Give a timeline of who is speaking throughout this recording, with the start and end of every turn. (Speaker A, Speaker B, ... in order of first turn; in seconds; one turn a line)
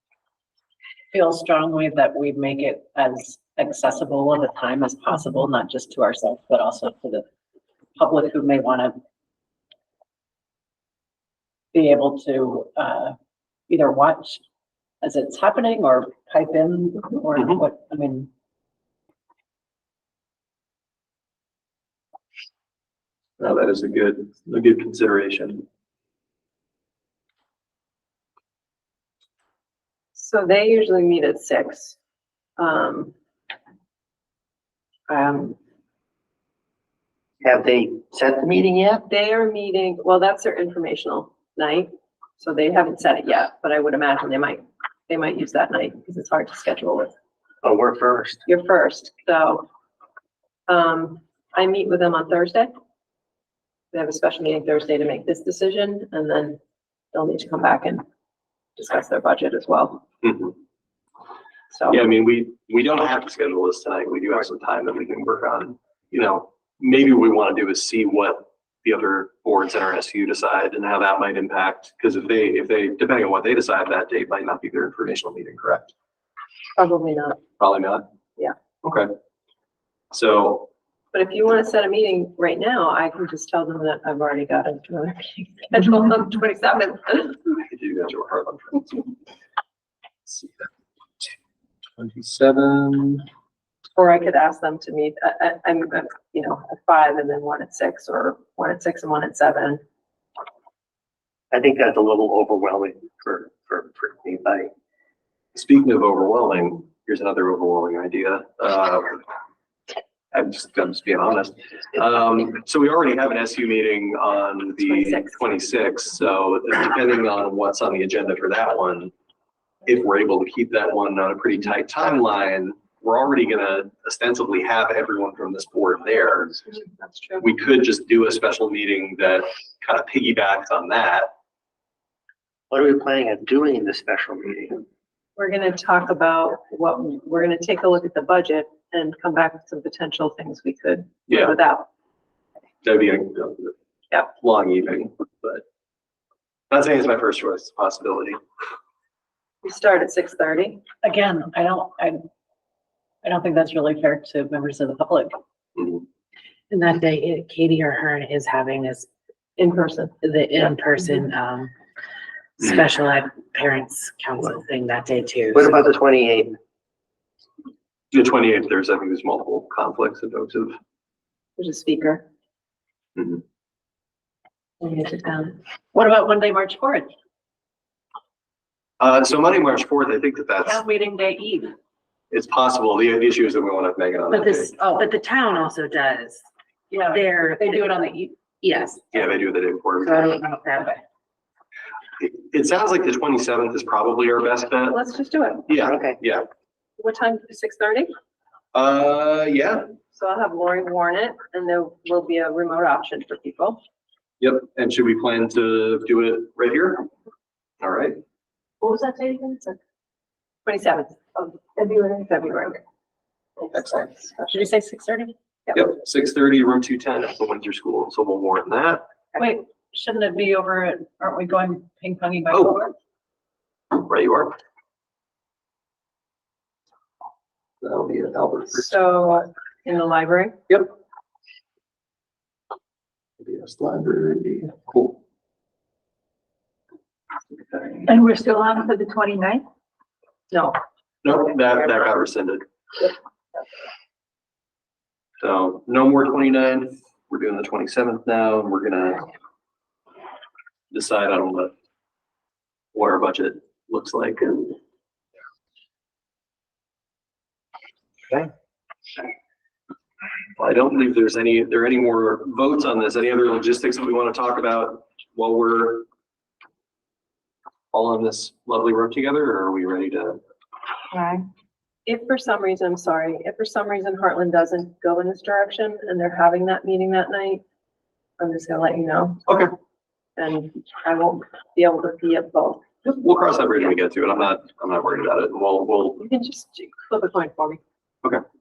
Speaker A: 1.1-7.2
Speaker A: 8.0-9.0
Speaker A: 11.7-13.2
Speaker A: 13.7-14.4
Speaker A: 15.0-18.3
Speaker B: 17.4-17.6
Speaker B: 23.4-25.6
Speaker C: 30.1-32.0
Speaker C: 32.6-33.1
Speaker C: 35.1-35.6
Speaker D: 37.4-39.0
Speaker C: 39.1-47.1
Speaker D: 47.6-48.4
Speaker C: 48.5-49.7
Speaker C: 50.7-52.7
Speaker C: 53.9-56.6
Speaker C: 57.1-58.0
Speaker C: 58.8-60.0
Speaker B: 60.2-60.5
Speaker C: 61.7-62.0
Speaker B: 61.9-75.9
Speaker C: 76.8-77.4
Speaker B: 77.6-78.1
Speaker B: 78.8-79.1
Speaker B: 80.1-80.7
Speaker C: 81.1-87.4
Speaker B: 87.6-89.1
Speaker B: 90.3-90.7
Speaker B: 92.0-93.2
Speaker C: 94.0-99.8
Speaker D: 101.5-104.7
Speaker B: 105.5-109.2
Speaker B: 110.3-119.1
Speaker C: 114.8-115.4
Speaker B: 119.9-126.6
Speaker C: 126.7-127.4
Speaker B: 127.4-131.3
Speaker D: 132.7-134.8
Speaker C: 135.4-141.9
Speaker B: 141.3-141.6
Speaker B: 142.8-145.6
Speaker B: 146.7-148.4
Speaker C: 149.6-150.8
Speaker A: 151.0-152.2
Speaker A: 153.2-155.4
Speaker B: 155.8-156.0
Speaker E: 156.7-159.1
Speaker C: 159.6-160.8
Speaker E: 160.2-161.7
Speaker E: 162.6-165.8
Speaker D: 165.6-166.6
Speaker B: 168.1-170.8
Speaker C: 171.6-172.3
Speaker B: 173.2-173.4
Speaker C: 174.8-175.6
Speaker A: 175.9-177.1
Speaker B: 179.0-180.8
Speaker A: 180.6-181.8
Speaker B: 182.3-184.7
Speaker E: 184.3-186.4
Speaker A: 186.9-188.4
Speaker E: 187.1-189.2
Speaker B: 189.1-190.2
Speaker E: 190.0-191.0
Speaker B: 192.2-195.0
Speaker C: 194.9-195.7
Speaker B: 195.7-196.5
Speaker D: 195.8-196.2
Speaker C: 197.0-198.1
Speaker B: 198.7-199.9
Speaker C: 200.1-203.8
Speaker B: 204.4-207.1
Speaker B: 207.8-208.2
Speaker F: 208.8-209.8
Speaker C: 210.7-211.2
Speaker F: 211.8-212.3
Speaker C: 212.3-212.8
Speaker C: 213.7-214.7
Speaker A: 214.5-215.3
Speaker B: 215.7-219.1
Speaker A: 219.4-222.9
Speaker B: 222.5-222.8
Speaker B: 223.9-224.6
Speaker B: 227.8-229.0
Speaker C: 228.7-230.6
Speaker B: 233.4-235.2
Speaker F: 238.0-239.7
Speaker C: 240.5-240.8
Speaker B: 241.2-243.1
Speaker B: 245.4-249.3
Speaker B: 250.9-251.7
Speaker B: 252.9-254.8
Speaker B: 260.6-266.1
Speaker B: 267.9-270.4
Speaker F: 271.1-271.4
Speaker C: 272.1-277.6
Speaker C: 278.4-279.4
Speaker B: 279.5-279.7
Speaker C: 280.4-282.8
Speaker B: 283.1-286.2
Speaker C: 286.2-287.8